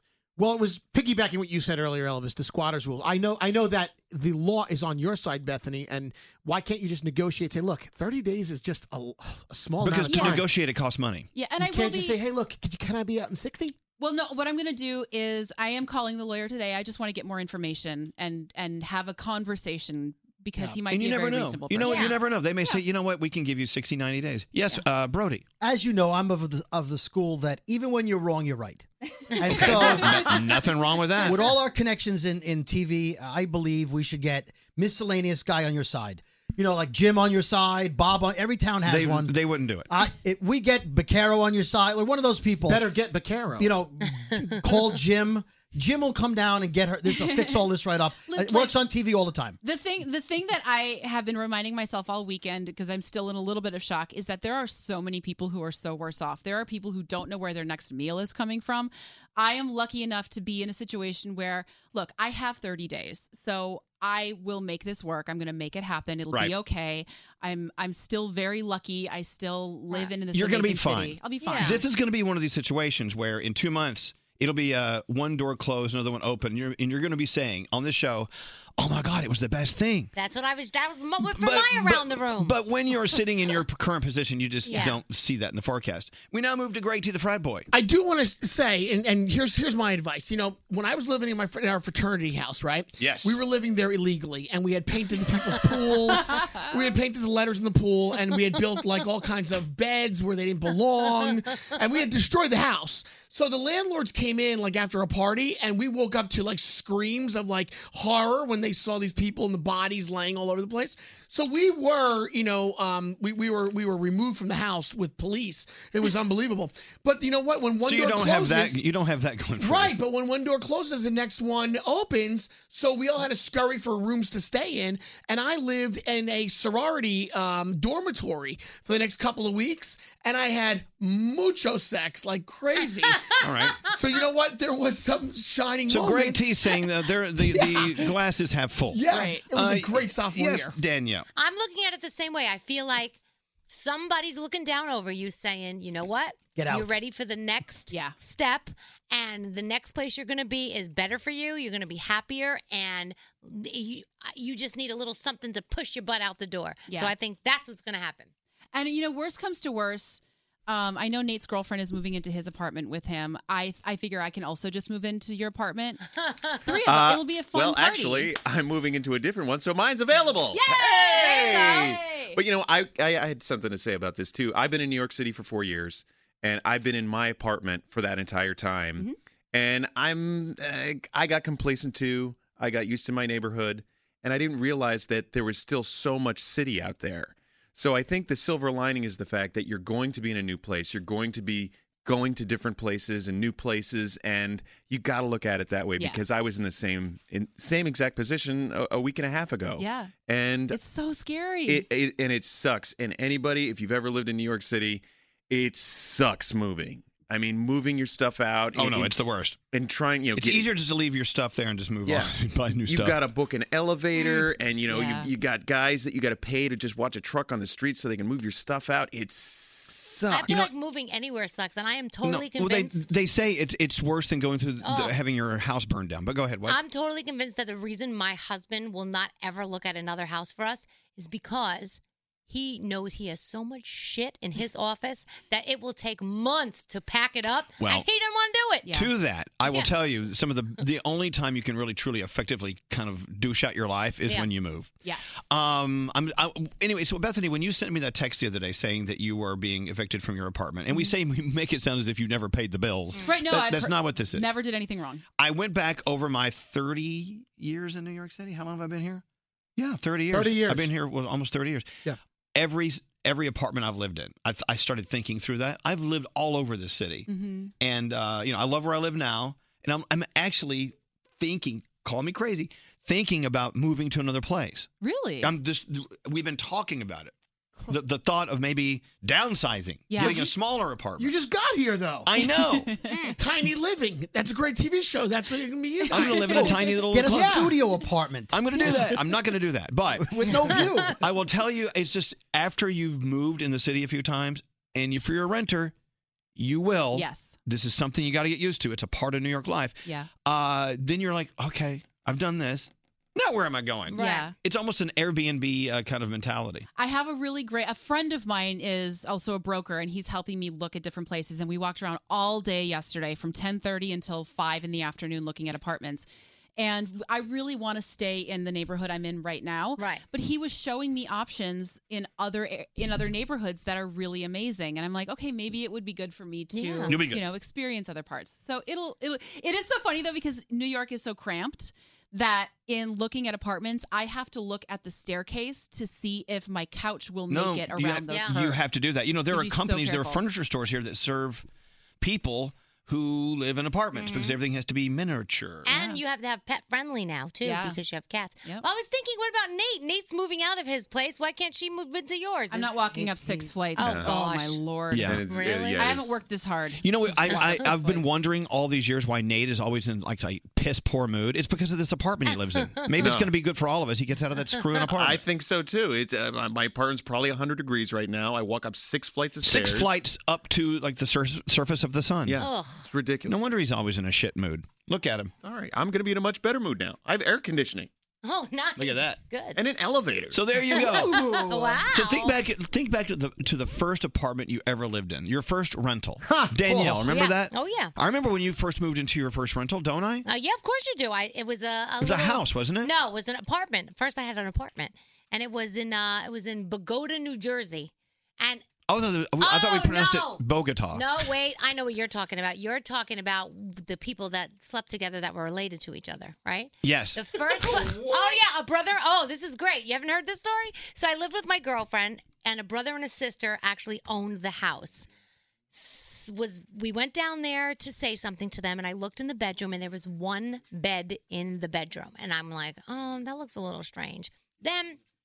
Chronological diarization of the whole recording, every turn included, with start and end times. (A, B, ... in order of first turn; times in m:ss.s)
0:00.4-0:10.5 A
0:09.8-0:11.3 B
0:10.1-0:10.4 C
0:11.4-0:12.2 C
0:11.6-0:13.8 A
0:14.0-0:22.8 C
0:20.9-0:25.4 B
0:21.8-0:22.2 D
0:25.6-0:30.5 E
0:29.6-0:31.4 B
0:29.6-0:30.1 C
0:31.2-0:39.4 E
0:38.8-0:39.9 B
0:39.9-0:42.9 E
0:42.7-0:43.7 A
0:43.6-0:49.6 E
0:47.1-0:47.6 C
0:48.2-0:48.8 C
0:49.6-1:11.9 C
1:06.3-1:06.6 B
1:10.3-1:20.1 B
1:11.4-1:11.8 D
1:20.2-1:22.6 D
1:21.2-1:27.7 B
1:24.6-1:25.0 D
1:27.7-1:58.8 A
1:33.0-1:33.4 B
1:57.8-2:00.0 B
1:59.6-2:18.2 A
2:13.4-2:13.8 B
2:15.9-2:21.3 B
2:18.9-2:20.8 A
2:19.1-2:19.4 C
2:21.4-2:38.3 D
2:26.6-2:27.0 E
2:27.9-2:28.2 C
2:36.9-2:37.1 C
2:38.7-2:46.0 C
2:46.2-2:46.6 D
2:46.6-2:48.3 C
2:46.8-3:20.8 F
2:50.5-2:52.4 C
3:19.8-3:20.1 C
3:20.7-3:21.8 C
3:21.7-3:29.2 F
3:28.7-3:29.6 B
3:29.7-3:30.8 F
3:30.4-3:33.2 B
3:32.0-3:40.6 F
3:34.2-3:34.4 D
3:34.9-3:35.3 C
3:40.3-3:43.2 D
3:40.5-3:40.7 B
3:42.2-3:46.8 B
3:44.8-3:45.2 D
3:46.7-3:58.9 D
3:57.8-3:58.1 B
3:58.8-3:59.1 C
3:58.9-4:04.9 B
3:59.7-3:59.9 D
4:05.0-4:05.4 C
4:05.5-4:14.5 B
4:13.2-4:15.2 C
4:15.4-4:19.2 B
4:19.8-4:22.0 B
4:22.6-4:34.9 B
4:27.3-4:27.7 C
4:35.0-4:35.5 C
4:35.4-4:37.3 B
4:37.9-4:41.4 B
4:40.1-4:40.4 C
4:40.2-4:40.5 A
4:41.4-4:42.3 A
4:42.2-4:42.9 B
4:42.6-4:42.9 C
4:43.1-4:43.4 D
4:43.4-4:47.8 A
4:46.2-4:47.7 B
4:46.3-4:49.1 E
4:48.5-4:55.9 B
4:50.2-4:51.2 E
4:56.6-5:06.8 B
4:57.1-4:57.6 C
5:04.1-5:04.5 D
5:04.1-5:04.5 C
5:07.0-5:38.9 C
5:20.0-5:20.2 D
5:26.7-5:27.2 D
5:27.1-5:27.4 B
5:37.5-5:41.7 B
5:38.3-5:38.6 D
5:39.5-5:40.4 C
5:42.2-5:45.9 B
5:44.1-5:44.6 D
5:45.8-5:54.8 D
5:45.9-5:46.2 C
5:47.6-5:48.0 C
5:52.7-5:55.4 C
5:54.0-5:54.3 F
5:55.1-5:55.4 B
5:55.2-5:56.4 F
5:55.4-5:56.2 D
5:56.0-5:58.2 C
5:57.0-6:05.4 B
5:57.5-5:57.8 D
6:03.1-6:03.3 D
6:03.1-6:03.5 F
6:05.0-6:10.2 F
6:09.6-6:12.6 B
6:12.4-6:13.7 F
6:12.6-6:13.1 D
6:13.4-6:15.5 B
6:15.6-6:18.1 F
6:18.4-6:19.8 D
6:19.0-6:19.4 B
6:19.7-6:21.0 F
6:20.5-6:21.6 B
6:20.9-6:22.6 D
6:20.9-6:22.0 C
6:22.1-6:30.4 B
6:26.8-6:27.2 E
6:27.1-6:27.5 F
6:27.2-6:28.1 D
6:30.4-6:38.8 D
6:32.2-6:33.1 B
6:39.1-6:41.5 B
6:39.6-6:40.6 D
6:41.1-6:55.3 D
6:47.0-6:47.4 B
6:55.9-7:05.2 D